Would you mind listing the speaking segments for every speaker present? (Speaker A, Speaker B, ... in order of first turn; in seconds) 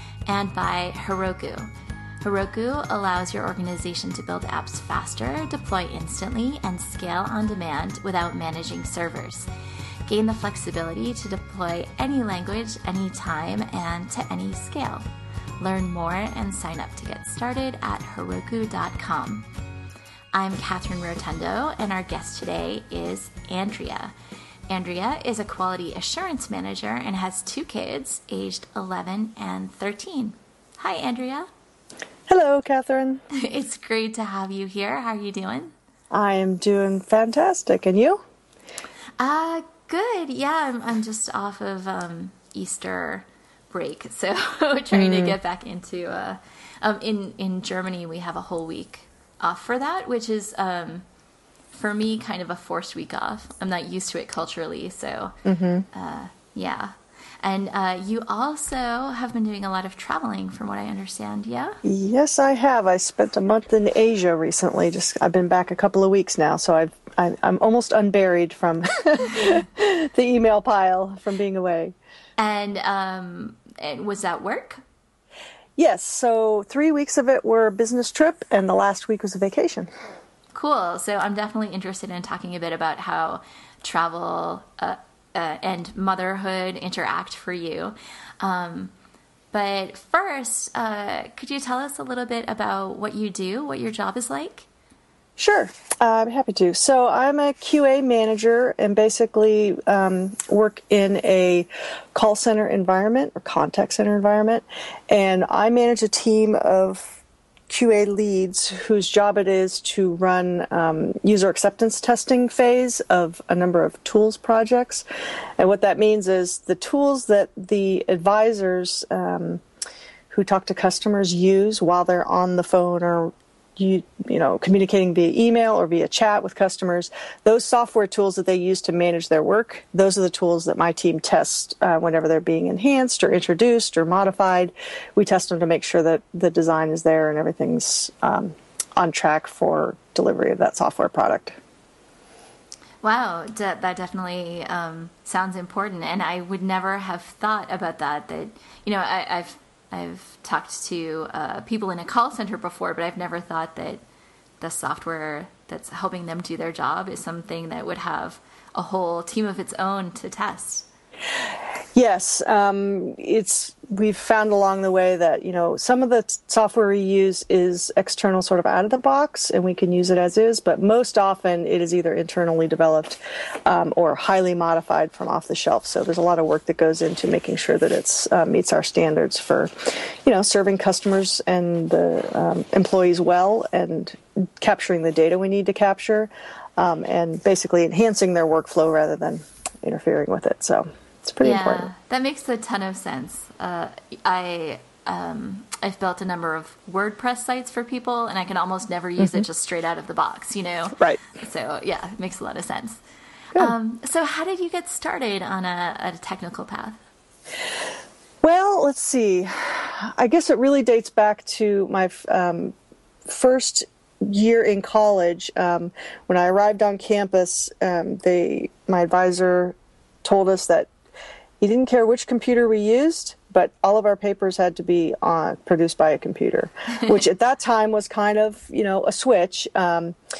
Speaker A: 0.3-1.7, 2.2-9.5, 10.1-15.1, 15.6-19.5, 20.3-24.1, 24.7-31.5, 33.3-35.7, 39.2-51.0, 51.7-55.4, 55.9-61.8, 72.4-74.8, 80.5-88.9, 89.5-94.7, 143.0-154.0, 154.6-160.9, 191.4-203.0, 203.5-207.0
Speaker B: 32.3-33.2, 36.1-38.2, 44.9-45.4, 55.4-55.9, 61.8-71.9, 75.8-79.9, 95.4-115.0, 115.6-119.6, 120.3-141.5, 161.9-191.9, 208.4-212.7, 213.2-220.9, 221.6-230.2